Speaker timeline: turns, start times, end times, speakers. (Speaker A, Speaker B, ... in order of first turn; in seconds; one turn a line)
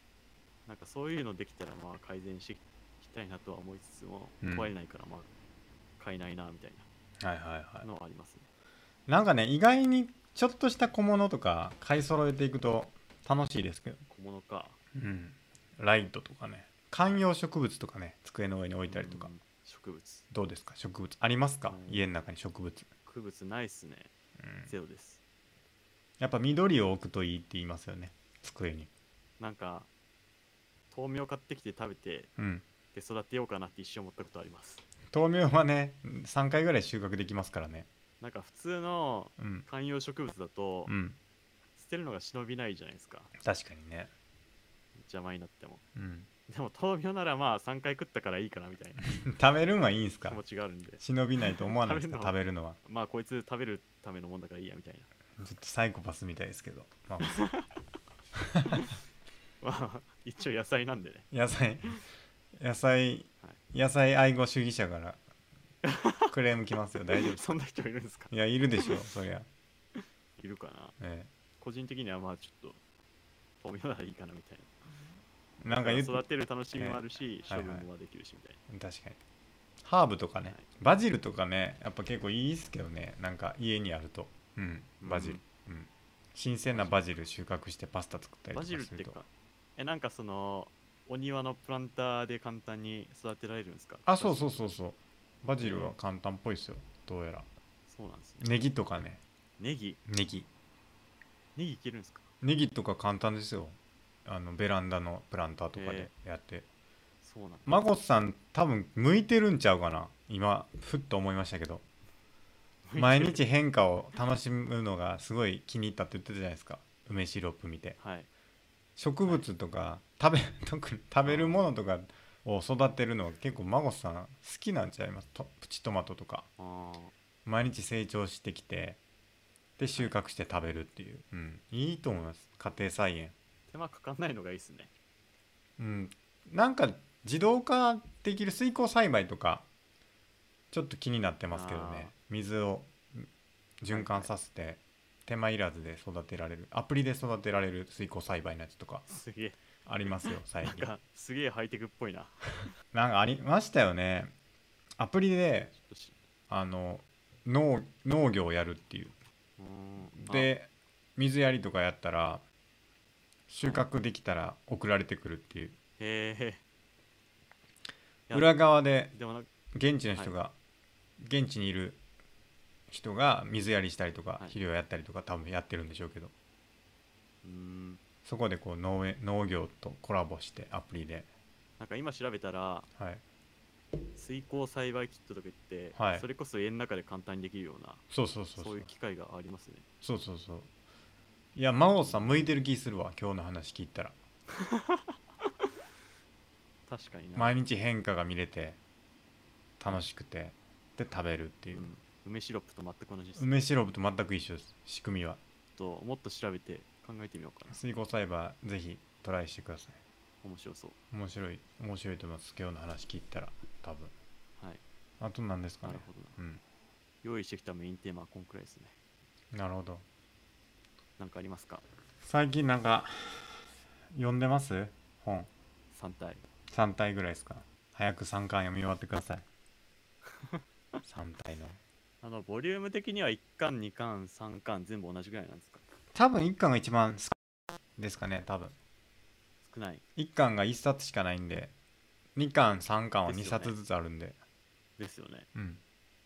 Speaker A: 0.7-5.3
Speaker B: 4.4-4.7
Speaker A: 6.0-6.9
Speaker B: 7.2-7.9
Speaker A: 7.8-8.5
Speaker B: 9.1-14.0
Speaker A: 14.1-14.8
Speaker B: 14.9-19.3
Speaker A: 18.9-20.2
Speaker B: 20.3-22.9
Speaker A: 21.7-22.1
Speaker A: 23.1-24.1
Speaker B: 24.4-24.7
Speaker A: 24.7-25.2
Speaker B: 26.2-28.9
Speaker A: 29.4-29.9
Speaker A: 30.9-32.3
Speaker B: 32.4-32.6
Speaker A: 32.9-34.8
Speaker B: 35.1-37.9
Speaker A: 38.2-40.9
Speaker B: 39.4-39.6
Speaker B: 40.9-41.2
Speaker A: 41.8-43.3
Speaker B: 43.4-44.1
Speaker A: 45.0-45.8
Speaker B: 45.9-46.3
Speaker A: 46.5-49.1
Speaker B: 49.0-50.4
Speaker A: 50.3-55.1
Speaker B: 51.0-52.8
Speaker B: 55.4-57.4
Speaker A: 57.2-57.6
Speaker B: 58.5-58.9
Speaker A: 59.6-61.3
Speaker B: 61.3-62.0
Speaker B: 62.6-65.2
Speaker A: 65.8-66.3
Speaker B: 66.3-67.5
Speaker A: 67.1-68.3
Speaker B: 68.3-69.5
Speaker A: 69.9-71.0
Speaker B: 71.0-71.3
Speaker A: 71.6-72.8
Speaker A: 73.6-74.7
Speaker B: 75.6-76.2
Speaker A: 75.7-78.6
Speaker B: 76.7-77.9
Speaker B: 78.7-79.2
Speaker B: 79.8-89.2
Speaker A: 85.0-85.4
Speaker A: 86.7-87.1
Speaker A: 88.5-94.5
Speaker B: 94.0-97.5
Speaker A: 95.6-95.9
Speaker A: 97.9-98.5
Speaker B: 98.4-99.2
Speaker A: 99.6-100.0
Speaker B: 100.0-100.5
Speaker A: 101.5-102.3
Speaker B: 102.4-106.7
Speaker A: 105.7-106.1
Speaker A: 107.2-107.7
Speaker B: 107.7-111.8
Speaker A: 112.8-113.4
Speaker B: 113.0-118.0
Speaker A: 118.0-118.3
Speaker B: 119.0-126.5
Speaker A: 121.2-121.7
Speaker A: 126.6-127.1
Speaker B: 127.5-129.0
Speaker B: 129.8-133.3
Speaker A: 133.7-134.9
Speaker B: 135.8-139.7
Speaker B: 140.7-143.3
Speaker A: 141.5-142.1
Speaker B: 143.8-149.1
Speaker A: 143.9-144.3
Speaker A: 149.1-152.7
Speaker B: 149.8-150.9
Speaker B: 152.9-154.3
Speaker B: 155.0-155.7
Speaker A: 155.7-156.2
Speaker B: 156.5-159.1
Speaker A: 159.6-160.5
Speaker B: 160.1-162.4
Speaker B: 163.5-165.8
Speaker A: 166.0-166.6
Speaker A: 168.3-168.5
Speaker B: 168.3-169.1
Speaker A: 169.1-169.5
Speaker B: 169.7-170.5
Speaker B: 171.2-172.0
Speaker B: 172.9-176.3
Speaker A: 177.4-178.0
Speaker B: 178.2-181.3
Speaker A: 181.8-182.9
Speaker A: 184.1-188.0
Speaker B: 185.9-186.2
Speaker B: 188.1-188.9
Speaker A: 188.6-189.8
Speaker B: 190.0-190.7
Speaker B: 191.5-194.2
Speaker A: 194.5-195.5
Speaker A: 196.9-197.6
Speaker B: 197.3-198.8
Speaker B: 199.8-201.9
Speaker A: 201.7-203.5
Speaker B: 203.3-205.4
Speaker A: 205.8-207.8
Speaker B: 207.7-210.0
Speaker A: 210.4-211.0
Speaker B: 211.1-214.1
Speaker B: 215.2-216.6
Speaker A: 215.8-216.4
Speaker A: 217.2-218.9
Speaker B: 219.5-220.0
Speaker A: 221.2-221.8
Speaker B: 222.2-225.5
Speaker A: 225.9-226.4
Speaker B: 226.7-229.4
Speaker A: 230.2-230.6
Speaker B: 231.0-231.8
Speaker A: 232.2-235.8
Speaker B: 236.1-237.3
Speaker B: 238.0-238.7
Speaker A: 239.6-240.0
Speaker B: 240.2-241.7
Speaker B: 242.3-244.4
Speaker A: 243.2-243.8
Speaker A: 245.0-245.5
Speaker B: 245.5-245.8